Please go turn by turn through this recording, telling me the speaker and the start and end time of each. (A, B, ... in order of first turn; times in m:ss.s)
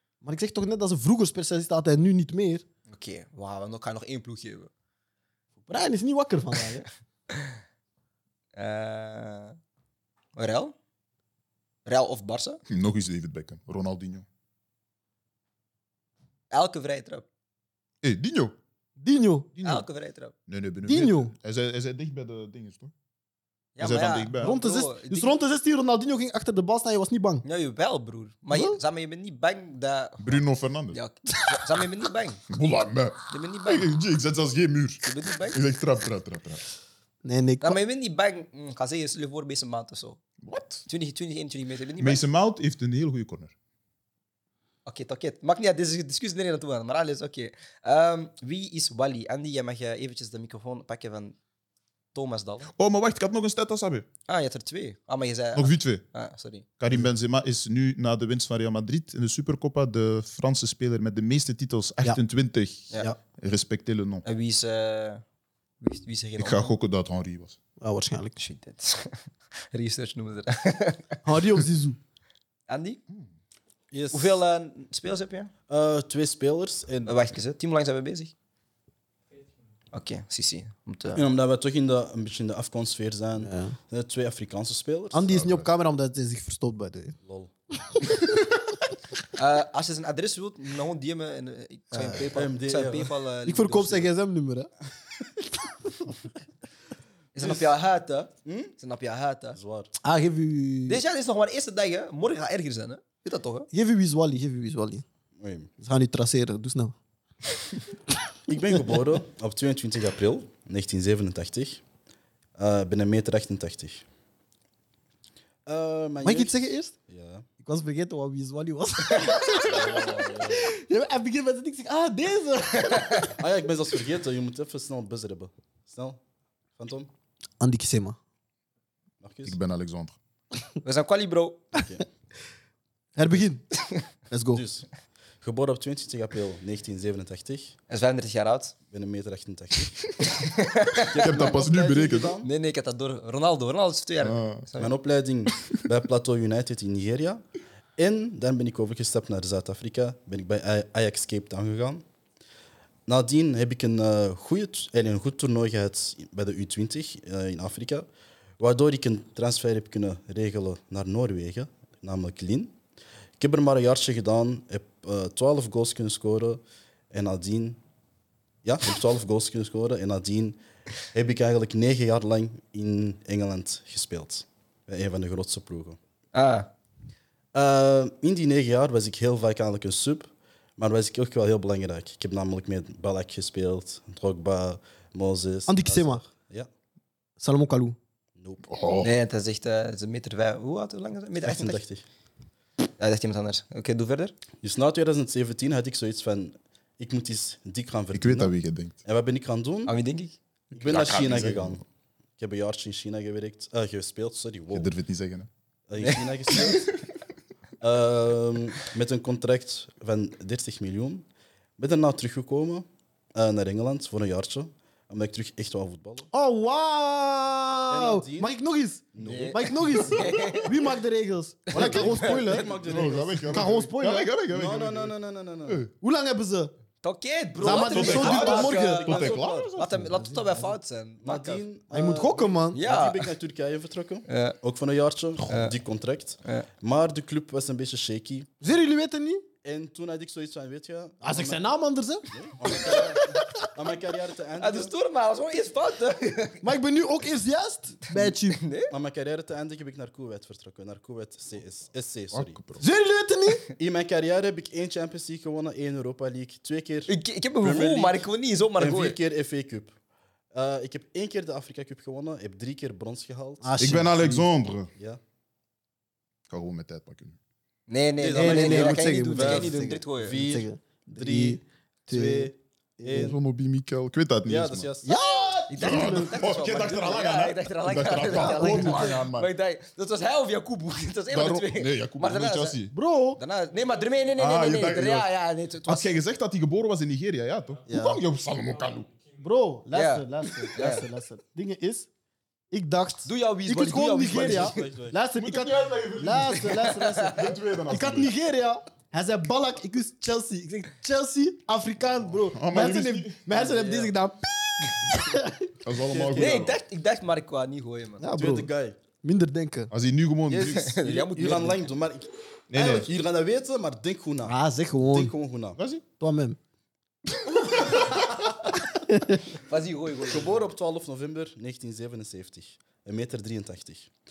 0:00.2-0:02.6 A
0:02.9-0:04.7 B
0:05.7-0:06.8 A
0:08.6-0:09.6 B
0:10.4-0:10.7 B
0:11.8-0:12.6 B
0:12.7-0:14.2 C
0:16.5-0:17.2 B
0:18.0-0:18.6 C
0:19.0-0:19.5 A
0:19.6-0:19.9 C
0:19.6-0:20.3 B
0:20.5-0:22.9 C
0:20.8-0:21.3 A
0:23.8-0:25.3 B
0:23.8-0:24.6 C
0:24.4-0:27.4 A
0:27.4-0:32.4 B
0:28.5-0:28.8 A
0:30.2-0:31.0 C
0:32.5-0:36.6 C
0:33.3-0:33.9 B
0:35.0-0:35.6 B
0:37.2-0:37.8 A
0:37.6-0:40.2 B
0:40.4-0:40.9 C
0:40.9-0:42.2 B
0:42.0-0:43.5 C
0:44.8-0:51.4 B
0:52.1-0:52.7 B
0:52.8-0:54.1 C
0:54.3-0:56.7 B
0:55.6-0:56.0 C
0:56.8-1:04.2 C
1:04.2-1:05.2 B
1:05.8-1:06.7 B
1:06.4-1:07.6 C
1:07.8-1:08.4 A
1:08.4-1:11.2 B
1:11.2-1:12.0 A
1:12.7-1:13.0 B
1:13.9-1:14.4 D
1:14.1-1:15.5 B
1:15.7-1:17.2 D
1:17.0-1:18.3 B
1:19.9-1:21.2 B
1:21.1-1:25.4 D
1:23.4-1:23.8 A
1:25.1-1:27.2 A
1:27.2-1:27.5 D
1:27.8-1:28.3 A
1:29.3-1:34.1 B
1:31.9-1:32.3 A
1:32.2-1:33.2 D
1:33.4-1:34.7 A
1:35.5-1:36.1 A
1:37.3-1:39.6 B
1:38.4-1:38.7 D
1:39.6-1:39.9 D
1:40.0-1:41.0 A
1:40.9-1:43.7 B
1:43.7-1:45.0 A
1:45.4-1:45.7 D
1:45.8-1:47.0 A
1:48.5-1:51.8 D
1:52.6-1:54.0 D
1:55.7-1:57.4 D
1:56.2-1:56.9 A
1:57.6-2:03.3 A
1:59.1-2:00.4 B
1:59.7-2:00.7 D
2:02.8-2:03.3 B
2:03.4-2:06.2 D
2:06.8-2:07.1 D
2:07.6-2:08.2 A
2:09.2-2:09.6 D
2:09.4-2:10.2 C
2:10.8-2:11.7 B
2:11.7-2:12.0 D
2:13.1-2:13.6 A
2:14.3-2:14.6 A
2:14.5-2:14.9 D
2:15.4-2:17.8 D
2:17.9-2:18.7 B
2:18.9-2:20.2 D
2:20.2-2:21.5 B
2:21.0-2:22.5 D
2:21.1-2:22.4 C
2:22.4-2:24.9 B
2:24.2-2:24.6 C
2:24.8-2:32.0 D
2:33.1-2:38.1 D
2:38.6-2:42.8 D
2:43.4-2:47.8 D
2:48.6-2:56.0 D
2:56.3-2:56.7 B
2:57.5-3:06.7 D
3:05.7-3:06.2 A
3:07.4-3:08.0 A
3:08.4-3:08.7 D
3:08.7-3:09.1 C
3:09.0-3:11.8 B
3:11.4-3:12.0 D
3:13.0-3:14.3 B
3:14.6-3:18.5 D
3:18.1-3:19.0 C
3:19.0-3:19.9 D
3:19.9-3:20.4 B
3:20.7-3:21.8 D
3:20.8-3:21.8 C
3:22.4-3:24.9 D
3:24.7-3:25.5 C
3:25.9-3:26.9 D
3:27.8-3:31.3 D
3:31.8-3:36.3 D
3:36.3-3:44.3 A
3:37.9-3:38.5 D
3:39.1-3:39.9 D
3:39.2-3:40.7 B
3:41.7-3:42.6 B
3:41.7-3:43.8 D
3:42.4-3:45.1 C
3:44.5-3:45.8 D
3:45.7-3:45.9 C
3:46.0-3:46.7 A
3:47.0-3:51.6 B
3:47.6-3:50.6 A
3:47.6-3:49.9 C
3:48.0-3:48.4 D
3:51.2-3:58.5 D
3:51.9-3:52.8 A
3:52.7-3:53.3 B
3:54.3-3:54.6 B
3:55.5-3:55.7 B
3:58.6-3:59.4 A
3:59.6-4:01.6 D
4:01.2-4:03.0 A
4:02.3-4:04.9 D
4:04.6-4:06.6 B
4:06.6-4:08.6 A
4:08.2-4:08.9 B
4:08.9-4:12.6 D
4:12.3-4:12.8 C
4:12.8-4:13.6 A
4:13.8-4:18.2 D
4:17.1-4:19.2 B
4:18.8-4:20.0 D
4:20.5-4:23.8 D
4:23.6-4:24.5 A
4:23.8-4:24.9 C
4:24.9-4:25.2 D
4:26.5-4:27.4 C
4:27.9-4:30.4 B
4:28.2-4:33.4 D
4:28.4-4:33.4 A
4:33.1-4:34.9 C
4:34.4-4:35.1 D
4:35.0-4:36.7 A
4:35.7-4:42.8 B
4:35.8-4:39.5 C
4:38.3-4:39.2 A
4:41.3-4:43.0 C
4:42.9-4:43.4 A
4:43.4-4:46.1 B
4:44.4-4:45.3 C
4:45.9-4:49.1 C
4:47.9-4:48.2 A
4:49.4-4:52.1 A
4:49.9-4:51.0 B
4:52.7-5:05.7 A
4:53.3-4:54.8 B
4:54.2-4:55.2 D
4:55.4-4:58.3 C
4:56.4-4:57.5 B
5:02.5-5:03.4 C
5:03.5-5:04.1 B
5:05.8-5:06.8 C
5:06.0-5:06.7 D
5:06.4-5:08.3 B
5:08.2-5:08.7 A
5:08.3-5:09.0 D
5:09.2-5:09.9 A
5:09.9-5:11.0 C
5:10.5-5:15.8 D
5:10.7-5:11.9 B
5:12.7-5:13.1 C
5:14.4-5:15.4 A
5:15.8-5:16.0 C
5:16.2-5:16.6 A
5:19.1-5:19.4 A
5:19.6-5:20.7 B
5:20.2-5:24.1 D